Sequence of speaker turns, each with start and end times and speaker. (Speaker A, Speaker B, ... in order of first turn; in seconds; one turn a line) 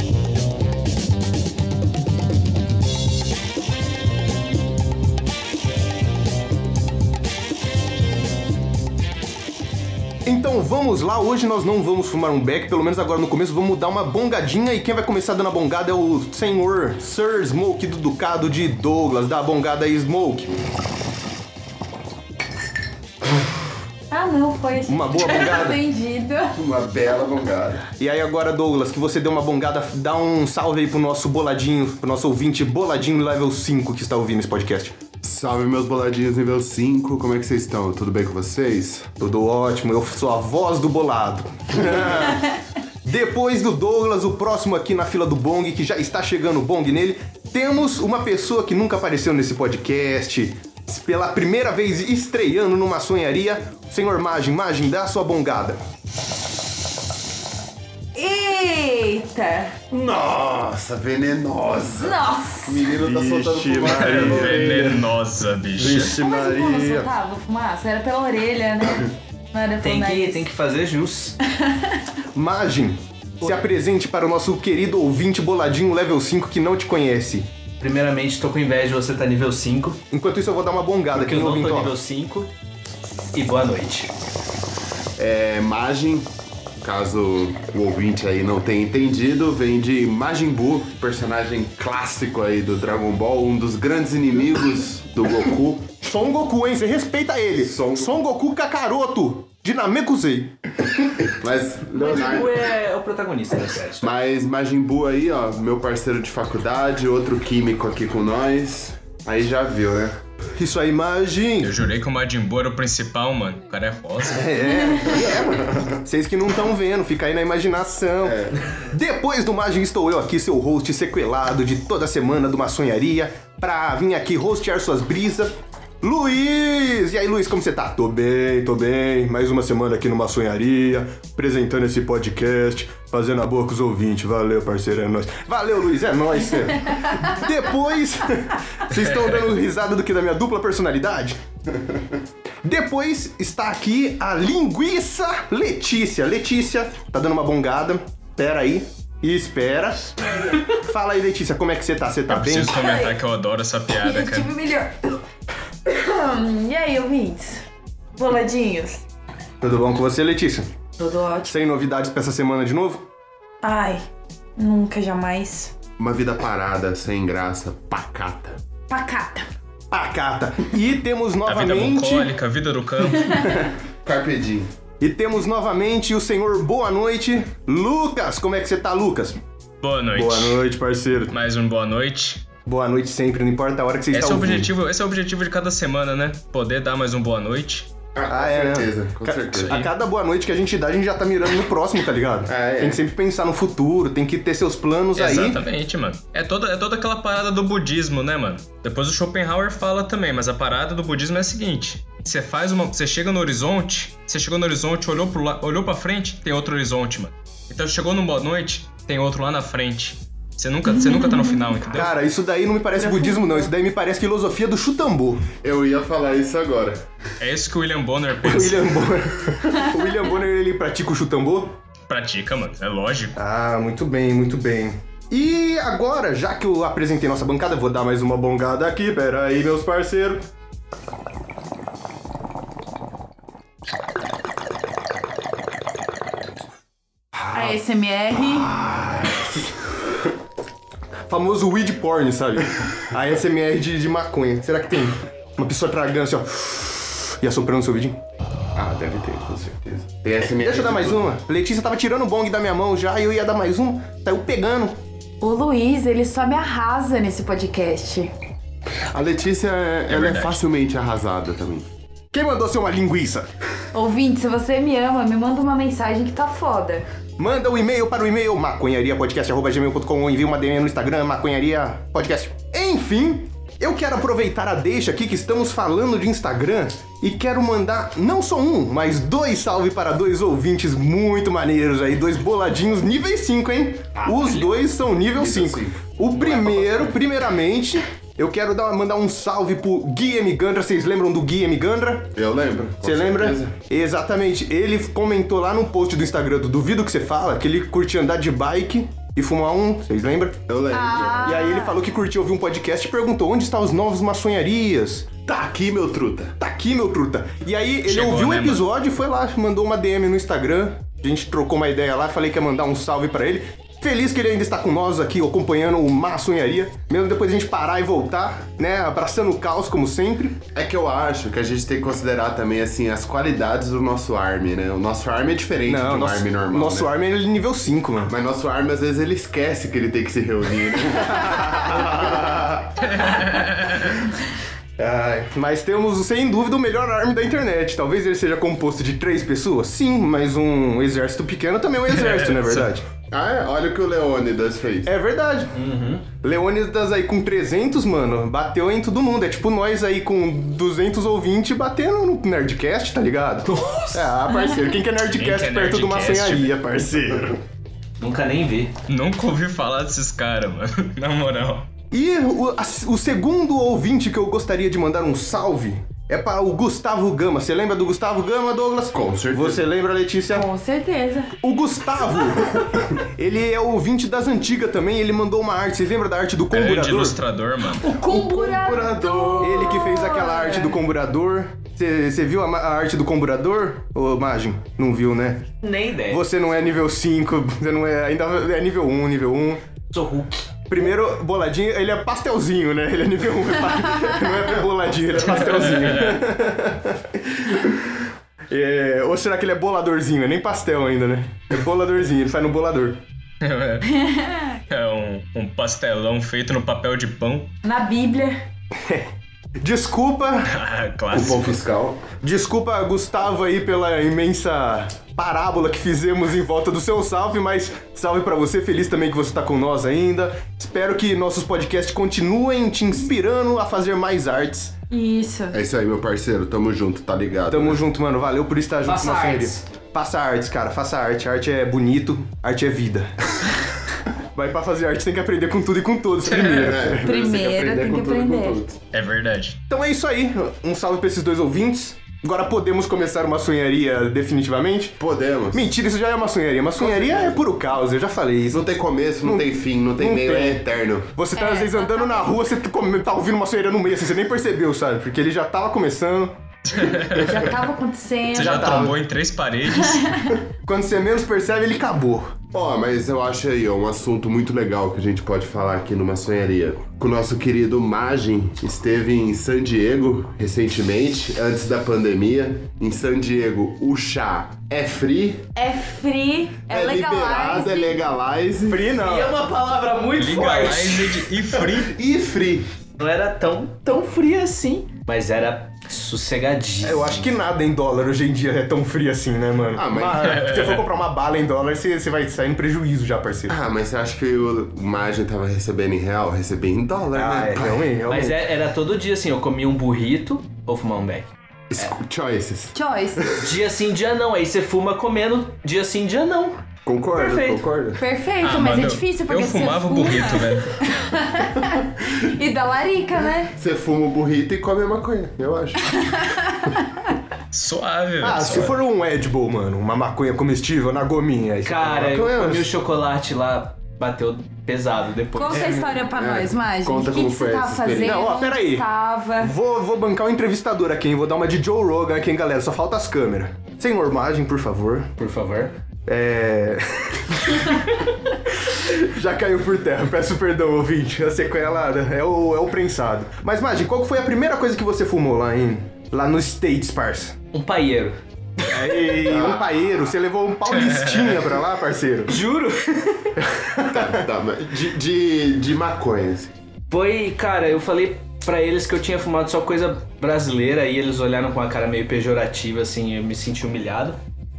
Speaker A: 10.2-20.6
Speaker B: 24.1-26.6
Speaker A: 24.9-25.8
Speaker C: 26.6-27.9
Speaker A: 28.0-34.9
Speaker C: 35.2-39.1
Speaker A: 39.2-42.5
Speaker A: 43.0-55.8
Speaker B: 58.1-59.8
Speaker C: 59.9-65.1
Speaker B: 62.0-62.9
Speaker A: 62.9-65.0
Speaker D: 63.9-66.2
Speaker C: 65.8-67.1
Speaker B: 66.0-70.5
Speaker E: 69.8-71.4
Speaker B: 71.5-72.0
Speaker A: 72.3-77.5
Speaker E: 77.8-80.0
Speaker A: 80.1-82.0
Speaker E: 81.1-82.5
Speaker E: 83.3-84.1
Speaker C: 85.2-86.3
Speaker C: 86.8-95.9
Speaker A: 96.0-100.5
Speaker C: 97.6-98.1
Speaker C: 101.2-102.6
Speaker E: 101.9-104.1
Speaker C: 104.0-110.2
Speaker A: 110.6-111.8
Speaker D: 111.6-114.5
Speaker A: 114.3-141.4
Speaker C: 115.2-115.9
Speaker C: 118.2-118.6
Speaker A: 142.6-152.8
Speaker D: 152.3-154.5
Speaker B: 152.8-153.2
Speaker B: 153.9-155.2
Speaker B: 155.9-157.7
Speaker B: 158.2-159.0
Speaker A: 159.6-160.8
Speaker B: 161.0-161.6
Speaker A: 161.5-163.1
Speaker B: 163.6-164.0
Speaker B: 164.6-165.7
Speaker C: 166.0-168.6
Speaker B: 168.9-169.5
Speaker A: 169.9-172.3
Speaker D: 171.5-173.5
Speaker A: 173.4-173.7
Speaker C: 174.0-174.7
Speaker A: 175.0-179.4
Speaker D: 179.8-180.6
Speaker A: 180.1-181.3
Speaker D: 181.3-182.5
Speaker A: 182.7-184.7
Speaker D: 184.1-187.9
Speaker C: 188.2-189.8
Speaker A: 188.3-195.6
Speaker D: 189.5-189.9
Speaker C: 192.5-193.0
Speaker D: 195.2-212.1
Speaker B: 211.1-211.5
Speaker A: 211.9-215.5
Speaker B: 213.1-213.5
Speaker C: 215.6-217.0
Speaker D: 217.4-219.1
Speaker A: 218.4-221.8
Speaker D: 222.1-223.4
Speaker A: 223.4-230.4
Speaker B: 237.5-238.8
Speaker C: 238.8-239.4
Speaker A: 241.3-248.2
Speaker C: 248.8-251.3
Speaker A: 250.4-255.0
Speaker B: 255.4-258.3
Speaker C: 258.9-261.9
Speaker D: 260.1-260.6
Speaker A: 262.3-263.5
Speaker B: 263.9-267.1
Speaker A: 267.4-292.4
Speaker E: 284.1-284.7
Speaker C: 285.4-286.0
Speaker E: 286.4-287.1
Speaker C: 292.4-293.7
Speaker A: 293.0-300.6
Speaker C: 300.7-301.6
Speaker B: 300.9-302.0
Speaker A: 301.4-305.3
Speaker C: 305.5-306.6
Speaker A: 306.6-320.6
Speaker D: 308.1-308.9
Speaker C: 320.7-327.1
Speaker A: 325.9-328.3
Speaker C: 328.3-332.6
Speaker A: 331.2-333.1
Speaker D: 333.0-334.1
Speaker A: 335.0-343.1
Speaker D: 342.1-342.9
Speaker C: 343.3-345.1
Speaker A: 345.1-345.8
Speaker E: 345.7-346.3
Speaker A: 346.4-357.6
Speaker E: 353.7-354.3
Speaker D: 355.2-356.7
Speaker E: 358.2-358.9
Speaker D: 359.1-361.9
Speaker A: 362.1-370.7
Speaker C: 369.1-369.8
Speaker B: 370.5-371.6
Speaker A: 371.6-377.4
Speaker D: 376.7-378.1
Speaker B: 378.0-381.0
Speaker C: 378.0-380.0
Speaker A: 379.6-385.7
Speaker E: 385.8-386.4
Speaker A: 386.3-389.8
Speaker E: 390.1-390.6
Speaker A: 390.9-403.2
Speaker D: 395.5-396.4
Speaker D: 403.6-404.1
Speaker B: 404.1-404.8
Speaker D: 404.9-407.7
Speaker B: 407.8-408.6
Speaker A: 409.0-409.3
Speaker A: 409.8-410.7
Speaker D: 410.7-411.9
Speaker C: 411.3-412.2
Speaker A: 412.4-424.9
Speaker B: 425.1-425.8
Speaker C: 425.7-428.0
Speaker A: 427.7-433.5
Speaker E: 429.1-429.9
Speaker A: 434.3-437.3
Speaker D: 436.5-436.9
Speaker C: 436.6-439.0
Speaker B: 437.2-438.8
Speaker D: 439.1-439.8
Speaker A: 439.9-445.2
Speaker C: 445.2-445.9
Speaker A: 445.7-450.8
Speaker C: 447.0-447.6
Speaker C: 448.7-451.3
Speaker A: 451.4-456.6
Speaker B: 451.6-452.4
Speaker D: 456.9-457.7
Speaker B: 457.4-459.0
Speaker D: 458.5-460.5
Speaker A: 458.5-459.2
Speaker B: 460.1-460.6
Speaker A: 460.8-462.6
Speaker C: 462.7-475.7
Speaker B: 475.8-478.2
Speaker C: 476.9-479.1
Speaker A: 478.9-479.6
Speaker E: 479.2-481.5
Speaker D: 480.4-482.2
Speaker C: 481.8-482.9
Speaker E: 483.2-487.6
Speaker A: 487.0-493.8
Speaker C: 489.9-490.7
Speaker D: 490.4-491.0
Speaker C: 493.7-498.1
Speaker A: 497.3-498.7
Speaker E: 498.3-502.1
Speaker C: 501.9-503.7
Speaker B: 502.9-503.6
Speaker E: 503.5-506.8
Speaker C: 507.1-508.2
Speaker E: 507.3-507.9
Speaker B: 508.2-513.7
Speaker D: 508.6-511.2
Speaker C: 513.8-516.3
Speaker B: 516.1-517.2
Speaker D: 517.7-519.0
Speaker A: 518.4-522.4
Speaker E: 521.9-526.0
Speaker C: 522.2-522.9
Speaker B: 525.5-529.7
Speaker A: 525.7-526.2
Speaker C: 526.4-528.4
Speaker A: 528.2-529.1
Speaker A: 529.6-535.3
Speaker E: 535.4-535.9
Speaker A: 536.3-538.0
Speaker A: 538.8-547.6
Speaker E: 547.7-549.5
Speaker A: 548.9-552.6
Speaker C: 549.4-550.0
Speaker E: 552.5-553.6
Speaker A: 553.6-554.4
Speaker C: 554.0-556.7
Speaker E: 557.1-564.4